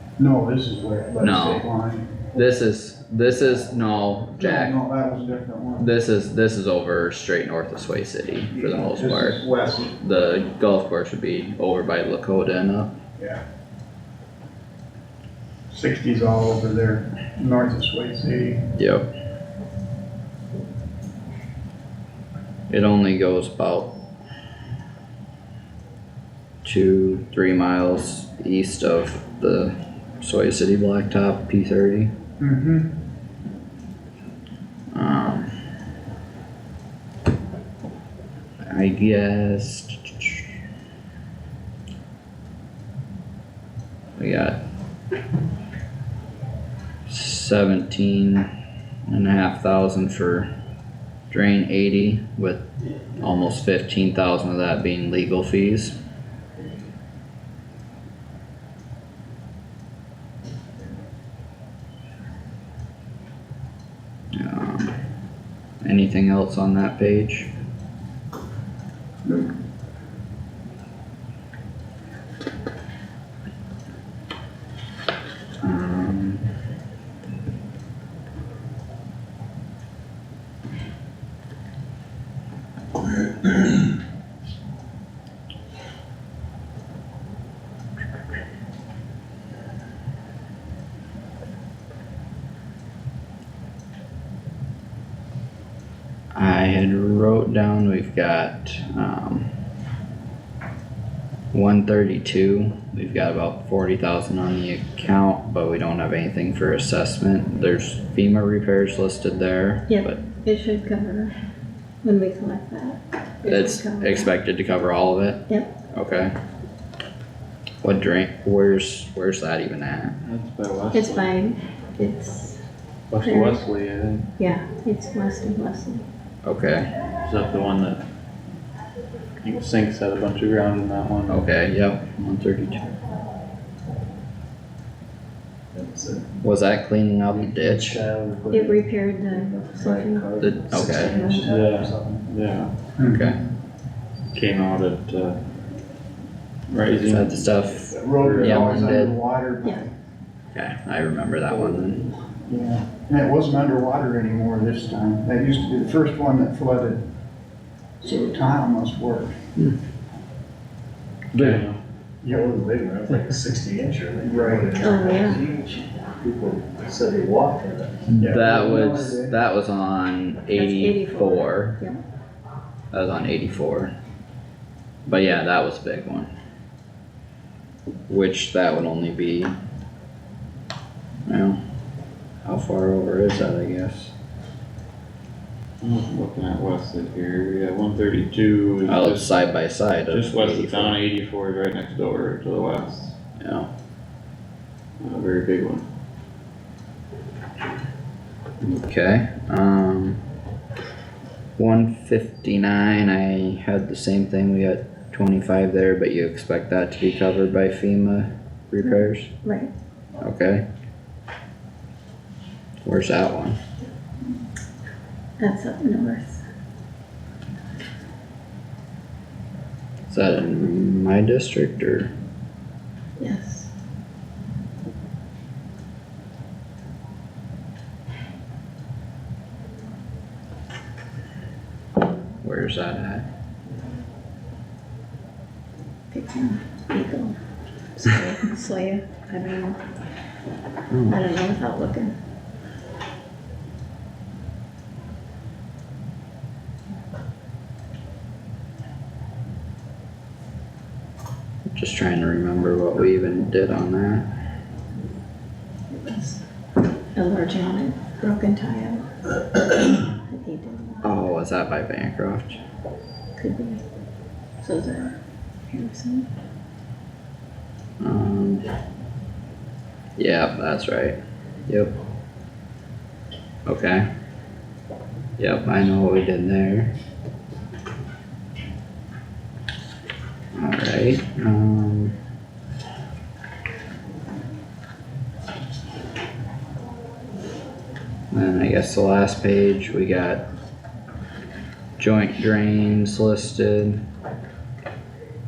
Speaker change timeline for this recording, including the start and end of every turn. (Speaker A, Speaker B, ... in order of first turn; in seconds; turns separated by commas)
Speaker A: 0.2-2.3, Speaker B: 1.2-1.6, Speaker B: 2.3-4.8, Speaker A: 4.4-5.8, Speaker B: 5.8-9.4, Speaker A: 8.5-9.9, Speaker B: 10.0-12.9, Speaker A: 15.7-18.6, Speaker B: 18.8-19.1, Speaker B: 22.7-23.9, Speaker B: 26.6-32.1, Speaker A: 32.4-32.9, Speaker B: 34.9-35.5, Speaker B: 38.7-40.5, Speaker B: 44.2-44.6, Speaker B: 47.1-48.5, Speaker B: 49.1-50.5, Speaker B: 51.3-52.7, Speaker B: 53.2-56.0, Speaker B: 64.4-65.0, Speaker B: 65.8-67.5, Speaker B: 75.6-76.5, Speaker B: 96.4-99.5, Speaker B: 101.5-110.2, Speaker C: 109.9-111.3, Speaker C: 112.0-114.3, Speaker B: 113.5-116.3, Speaker B: 117.8-120.2, Speaker D: 120.2-121.3, Speaker C: 120.9-122.6, Speaker D: 123.1-124.3, Speaker C: 123.2-123.6, Speaker C: 124.4-126.0, Speaker B: 126.4-126.9, Speaker D: 127.2-128.0, Speaker D: 129.4-131.4, Speaker B: 131.3-132.9, Speaker E: 135.7-136.3, Speaker B: 136.4-138.0, Speaker E: 137.3-142.3, Speaker C: 138.5-141.5, Speaker B: 140.4-141.2, Speaker D: 141.4-142.7, Speaker A: 143.0-143.3, Speaker B: 143.0-143.4, Speaker D: 144.3-145.4, Speaker D: 146.7-148.8, Speaker B: 147.0-149.2, Speaker A: 148.0-149.9, Speaker B: 150.5-152.1, Speaker A: 152.5-157.0, Speaker A: 158.0-159.3, Speaker B: 161.3-161.6, Speaker D: 161.3-161.8, Speaker E: 162.2-168.1, Speaker A: 164.2-164.8, Speaker C: 164.8-165.4, Speaker B: 168.1-171.8, Speaker A: 168.2-169.4, Speaker C: 170.5-172.0, Speaker B: 172.9-173.9, Speaker B: 175.1-176.3, Speaker B: 178.1-179.6, Speaker B: 181.3-181.6, Speaker B: 182.4-184.1, Speaker D: 185.8-189.3, Speaker B: 188.9-191.0, Speaker D: 190.1-193.2, Speaker B: 193.4-193.7, Speaker D: 195.0-195.8, Speaker B: 198.6-200.2, Speaker B: 201.6-209.3, Speaker C: 209.4-209.7, Speaker B: 210.2-210.6, Speaker B: 212.8-213.6, Speaker C: 215.4-216.4, Speaker B: 220.1-222.1, Speaker C: 223.2-223.7, Speaker B: 232.4-233.2, Speaker C: 236.1-237.4, Speaker C: 238.0-239.8, Speaker B: 240.9-241.2, Speaker C: 241.1-242.1, Speaker B: 251.7-254.3, Speaker C: 255.9-256.4, Speaker C: 257.1-259.1, Speaker C: 259.8-261.2, Speaker B: 261.0-262.6, Speaker C: 263.4-263.8, Speaker C: 264.6-265.2, Speaker C: 265.7-266.3, Speaker B: 268.0-268.7, Speaker B: 270.2-271.9, Speaker B: 273.7-274.1, Speaker B: 275.4-276.9, Speaker B: 280.6-282.1, Speaker B: 288.3-290.5, Speaker B: 292.0-294.0